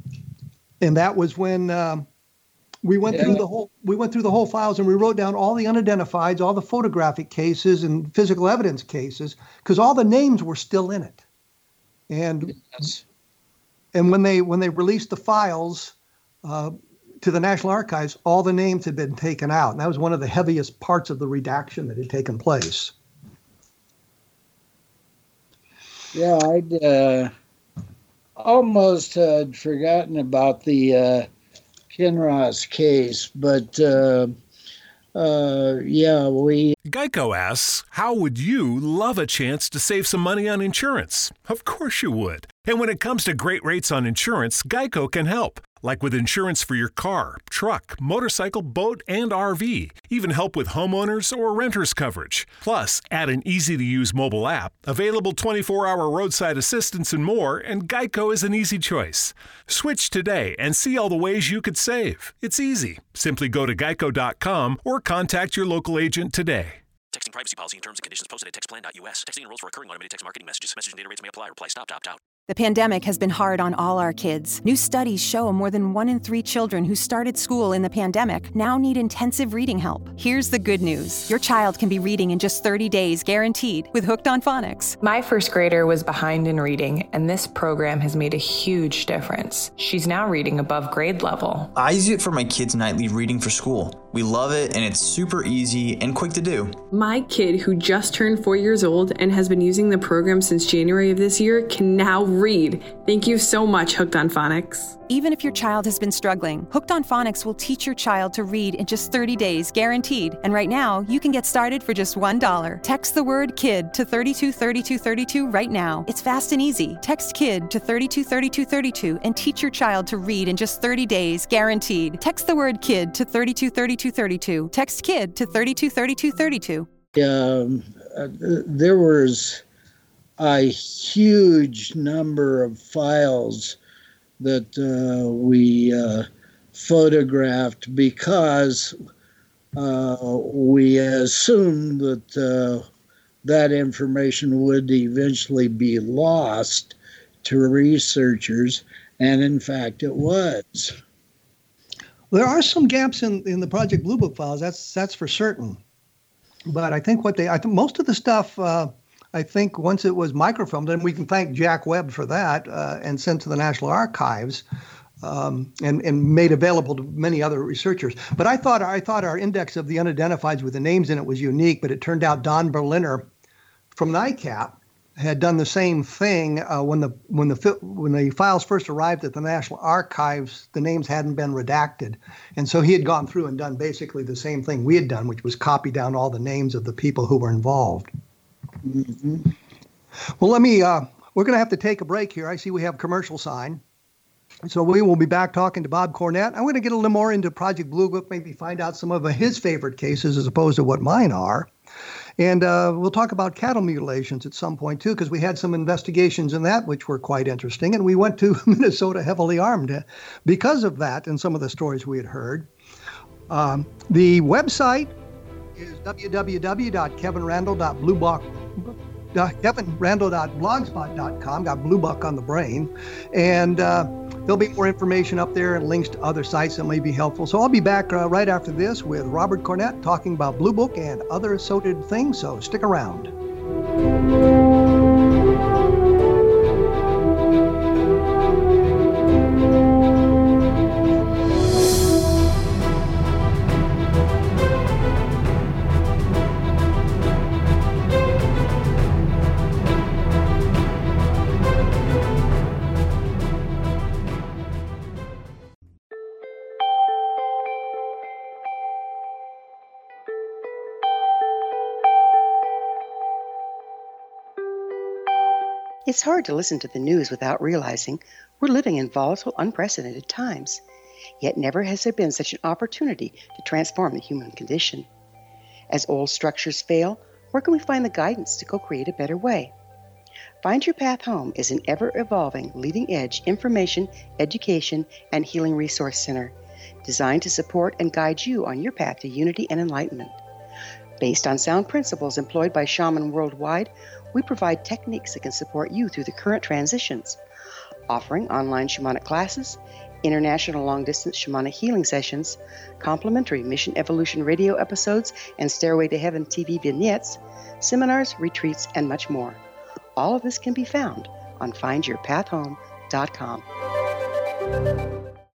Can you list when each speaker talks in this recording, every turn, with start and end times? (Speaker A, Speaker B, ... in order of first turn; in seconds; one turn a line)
Speaker A: 0.8-2.1
Speaker A: 2.8-11.2
Speaker B: 3.1-3.4
Speaker A: 12.1-12.6
Speaker A: 13.9-22.9
Speaker B: 26.1-27.3
Speaker B: 28.4-31.3
Speaker B: 31.9-34.3
Speaker B: 35.1-36.7
Speaker C: 36.9-66.8
Speaker D: 67.1-72.2
Speaker E: 72.5-85.0
Speaker F: 85.0-91.7
Speaker G: 91.7-96.8
Speaker H: 96.9-105.0
Speaker E: 105.1-126.9
Speaker B: 127.2-129.6
Speaker B: 130.4-133.8
Speaker B: 134.4-138.9
Speaker B: 139.8-142.8
Speaker B: 143.4-150.9
Speaker A: 152.3-155.8
Speaker A: 156.7-164.6
Speaker A: 165.2-173.3
Speaker A: 173.9-188.1
Speaker B: 188.8-189.5
Speaker A: 190.4-193.8
Speaker A: 194.7-201.7
Speaker A: 202.4-212.7
Speaker A: 213.5-215.1
Speaker A: 215.8-233.3
Speaker I: 266.1-270.8
Speaker I: 271.4-275.1
Speaker I: 275.9-279.7
Speaker I: 280.6-290.4
Speaker I: 291.2-297.4
Speaker I: 298.1-309.6
Speaker I: 310.1-313.6